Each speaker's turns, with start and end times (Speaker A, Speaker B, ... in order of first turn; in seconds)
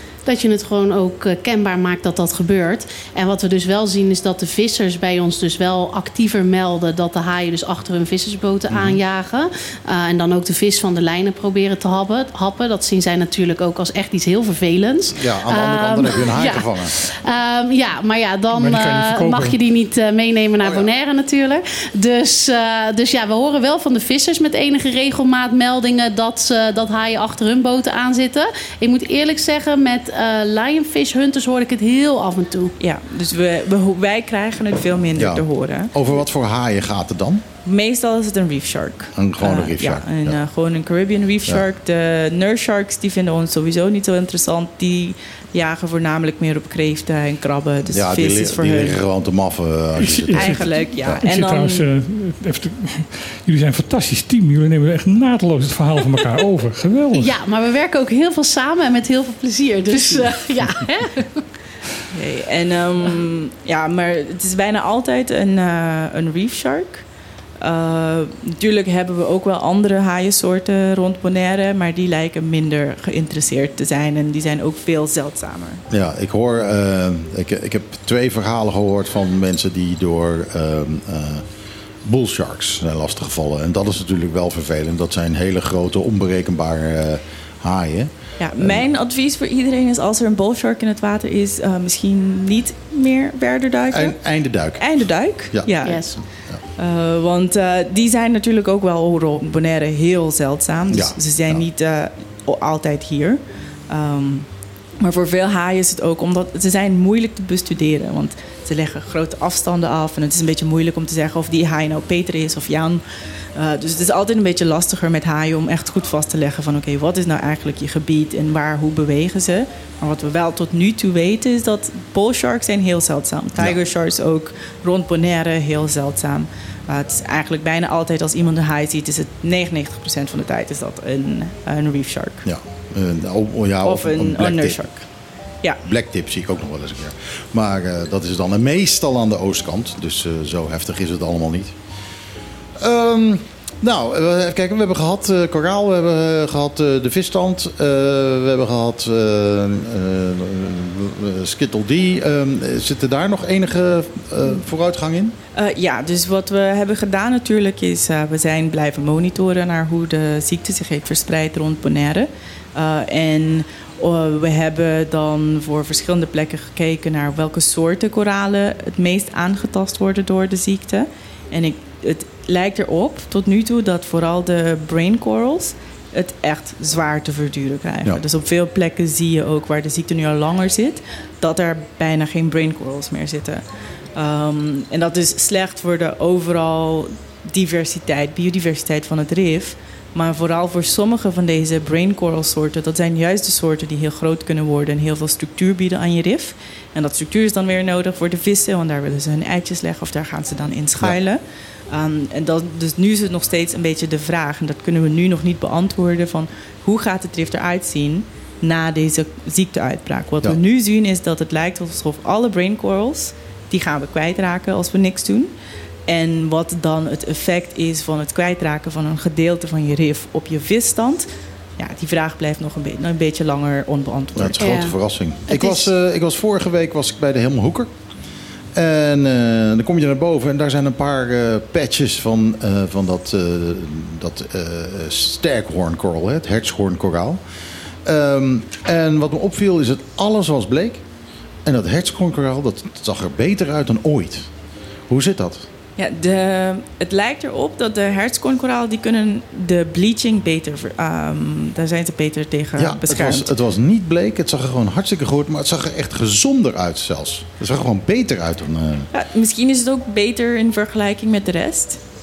Speaker A: 0.2-32.7, 57.1-61.3, 95.8-96.2, 224.6-225.0, 225.5-225.9
Speaker B: 8.7-9.0, 15.2-16.9, 20.6-20.9, 35.2-37.5, 39.1-40.4, 47.9-51.2, 75.9-81.4, 82.0-88.8, 93.9-94.9, 95.5-96.6, 100.9-101.6, 132.4-134.8, 135.8-141.7, 142.8-155.3, 224.3-227.9, 228.7-237.4, 238.0-241.0, 241.6-244.5, 245.1-245.7, 252.8-259.1
Speaker C: 18.5-19.6, 50.0-57.3
Speaker D: 32.8-35.9, 37.6-49.0, 50.3-51.9, 62.1-67.0, 67.6-75.8, 88.4-94.2, 94.8-96.0, 96.8-104.5, 105.0-113.0, 113.5-132.4, 133.8-135.0, 155.5-183.6, 184.2-215.5, 216.1-221.3, 221.8-224.6, 246.0-253.5, 259.1-262.0